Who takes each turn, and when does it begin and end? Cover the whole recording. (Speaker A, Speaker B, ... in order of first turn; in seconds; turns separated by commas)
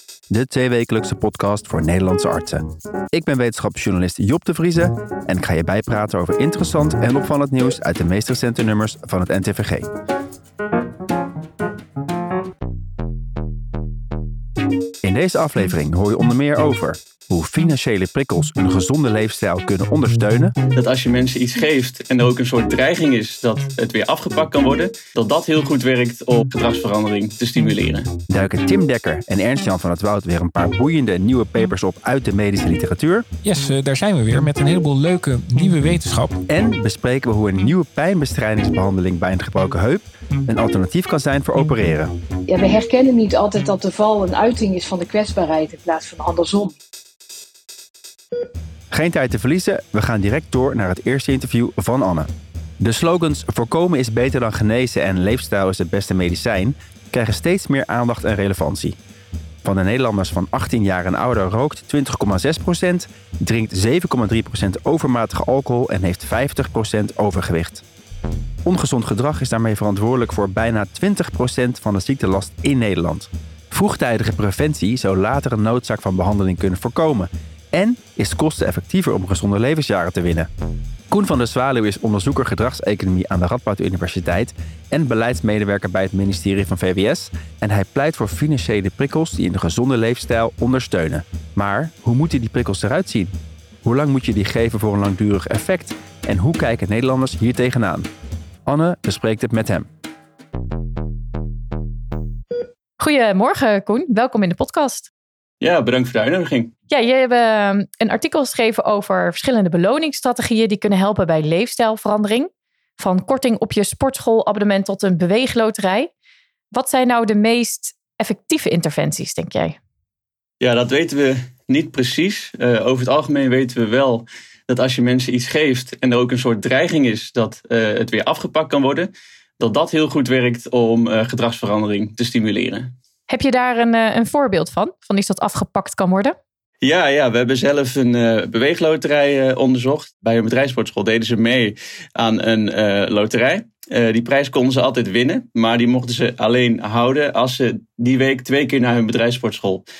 Speaker A: 0.3-9.9, Speaker A: 15.0-20.5, Speaker B: 20.7-28.1, Speaker A: 28.3-33.2, Speaker C: 33.4-36.4, Speaker A: 36.5-42.1, Speaker D: 42.5-46.8, Speaker A: 48.9-52.3, Speaker A: 52.8-59.0, Speaker A: 59.6-67.8, Speaker A: 68.6-80.5, Speaker A: 81.1-98.1, Speaker A: 98.7-99.9, Speaker E: 103.0-105.1, Speaker B: 105.6-106.7, Speaker E: 106.9-116.1, Speaker E: 116.7-119.8, Speaker B: 120.6-132.9, Speaker E: 133.3-136.4, Speaker B: 136.8-149.8